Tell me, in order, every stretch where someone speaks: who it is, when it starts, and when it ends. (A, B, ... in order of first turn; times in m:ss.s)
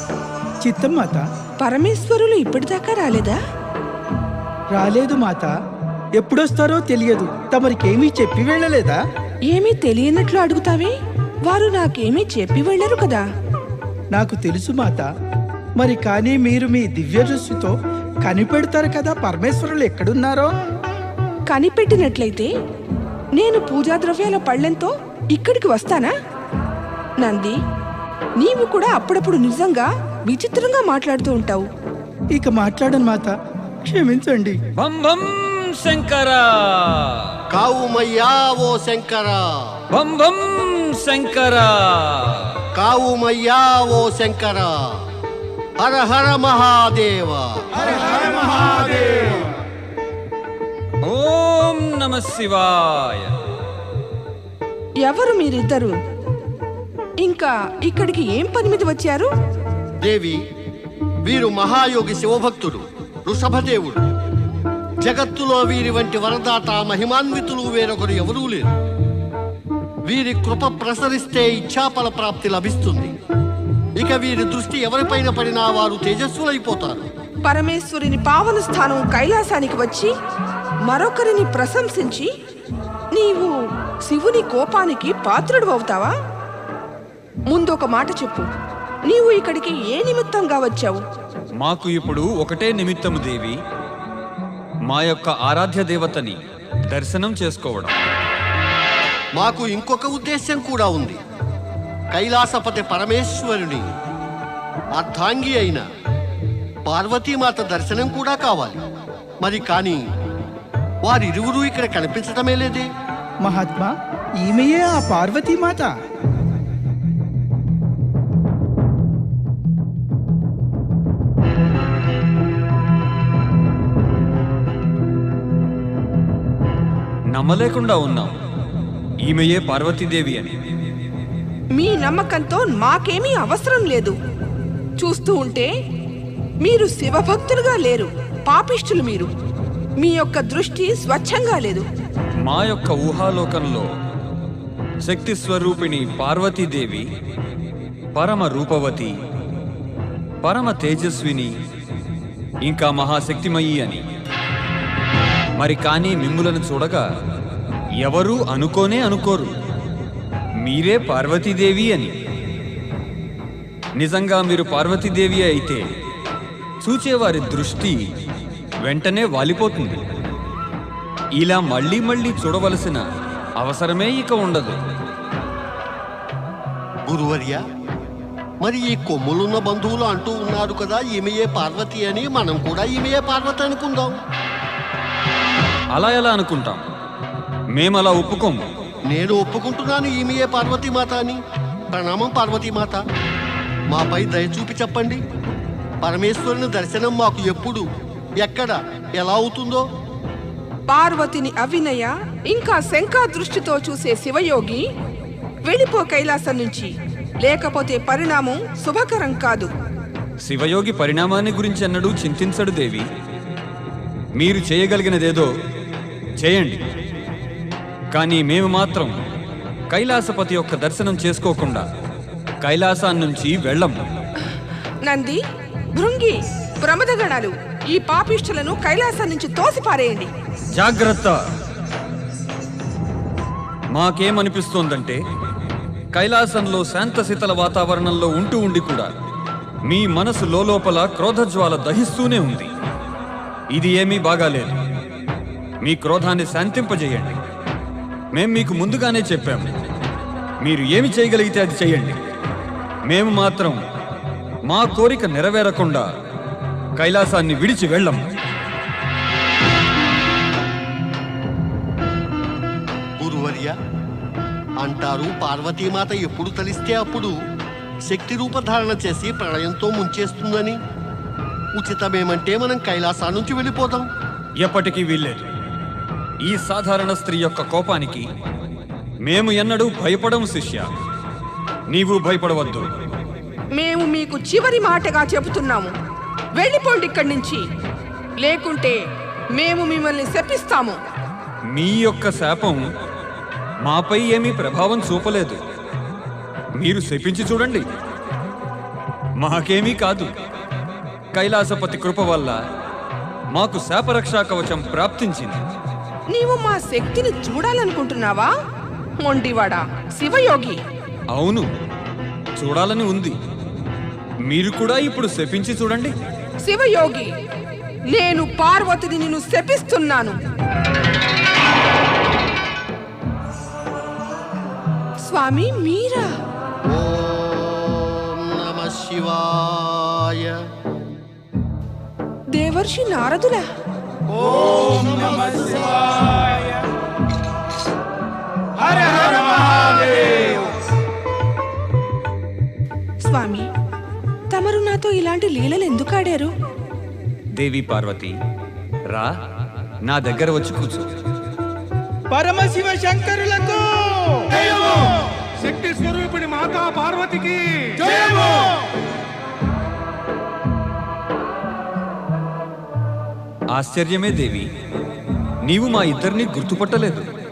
0:00.6-0:01.2 A
0:01.6-0:03.3 B
0:04.7-0:05.5 A
0:06.2-0:09.0 A
0:09.5-0:10.9 B
0:11.5-0:13.2 B
0:14.1-0:15.1 A
0:15.8-0:17.7 A
0:18.2-0:20.5 A
0:21.5-0:22.5 B
0:23.4-0:26.1 B
0:27.2-0:27.5 B
0:28.4-0:31.6 B
0:32.3-0:33.3 A
0:33.8-0:34.6 A
0:34.8-0:37.4 C
0:37.5-0:39.7 D
0:39.9-0:42.6 C
0:42.8-0:45.0 D
0:45.8-0:47.6 D
0:51.0-0:53.3 C
0:55.0-0:55.9 B
0:57.2-0:59.3 B
1:00.0-1:00.4 D
1:01.2-1:04.0 D
1:05.0-1:08.7 D
1:10.1-1:13.2 D
1:14.0-1:17.1 D
1:17.4-1:20.1 B
1:20.9-1:22.3 B
1:23.2-1:23.5 B
1:24.1-1:26.1 B
1:27.5-1:28.4 B
1:29.1-1:31.0 B
1:31.6-1:33.6 C
1:34.9-1:37.9 C
1:39.4-1:41.2 D
1:42.1-1:43.9 D
1:44.9-1:45.8 D
1:46.8-1:48.8 D
1:49.4-1:50.0 D
1:51.0-1:52.9 D
1:53.4-1:53.9 A
1:54.4-1:55.9 A
2:07.3-2:08.4 C
2:09.2-2:10.6 C
2:11.8-2:14.1 B
2:15.0-2:15.7 B
2:16.6-2:19.3 B
2:20.0-2:21.8 B
2:22.4-2:23.9 C
2:25.0-2:27.1 C
2:28.2-2:29.1 C
2:30.4-2:31.5 C
2:32.6-2:34.0 C
2:35.6-2:37.0 C
2:38.0-2:39.5 C
2:40.6-2:42.1 C
2:44.0-2:45.8 C
2:46.8-2:48.1 C
2:48.8-2:50.0 C
2:51.4-2:53.1 C
2:53.6-2:54.8 C
2:57.1-2:57.6 D
2:58.6-3:04.2 D
3:05.9-3:06.8 C
3:07.7-3:08.6 C
3:09.1-3:11.4 D
3:11.9-3:13.0 D
3:13.9-3:15.2 D
3:16.0-3:17.8 D
3:18.4-3:19.8 D
3:20.9-3:24.8 B
3:25.7-3:26.9 B
3:27.4-3:29.7 B
3:30.4-3:33.1 C
3:34.4-3:35.5 C
3:36.4-3:36.8 C
3:38.1-3:39.2 C
3:39.9-3:41.9 C
3:42.6-3:44.0 C
3:45.1-3:45.4 B
3:46.0-3:50.3 B
3:50.8-3:51.4 C
3:53.9-3:55.2 C
3:56.1-3:59.1 C
3:59.9-4:02.7 C
4:03.7-4:04.8 C
4:05.8-4:07.4 C
4:08.3-4:09.7 C
4:10.6-4:12.2 C
4:13.1-4:13.8 C
4:14.7-4:16.1 C
4:17.0-4:18.2 C
4:23.2-4:23.8 D
4:24.8-4:27.3 D
4:28.1-4:30.8 D
4:31.8-4:34.1 D
4:34.6-4:35.5 C
4:36.4-4:38.3 C
4:39.2-4:40.9 C
4:41.9-4:42.9 C
4:43.8-4:45.9 B
4:46.6-4:47.6 B
4:48.4-4:49.0 B
4:49.6-4:51.0 B
4:51.7-4:52.9 C
4:53.8-4:55.6 C
4:56.8-4:57.8 C
4:59.4-5:00.3 C
5:01.3-5:02.6 C
5:03.5-5:05.6 C
5:06.3-5:08.5 B
5:09.2-5:10.8 B
5:11.3-5:11.7 C
5:12.6-5:13.4 C
5:14.5-5:16.1 C
5:16.6-5:17.3 B
5:18.1-5:20.4 B
5:25.3-5:26.3 B
5:26.9-5:30.6 D
5:32.5-5:33.6 B
5:43.3-5:43.6 B
5:44.5-5:46.5 B
5:47.6-5:48.4 C
5:50.0-5:51.1 C
5:52.3-5:54.2 A
5:55.6-5:57.6 E
6:03.7-6:04.7 C
6:05.6-6:07.2 C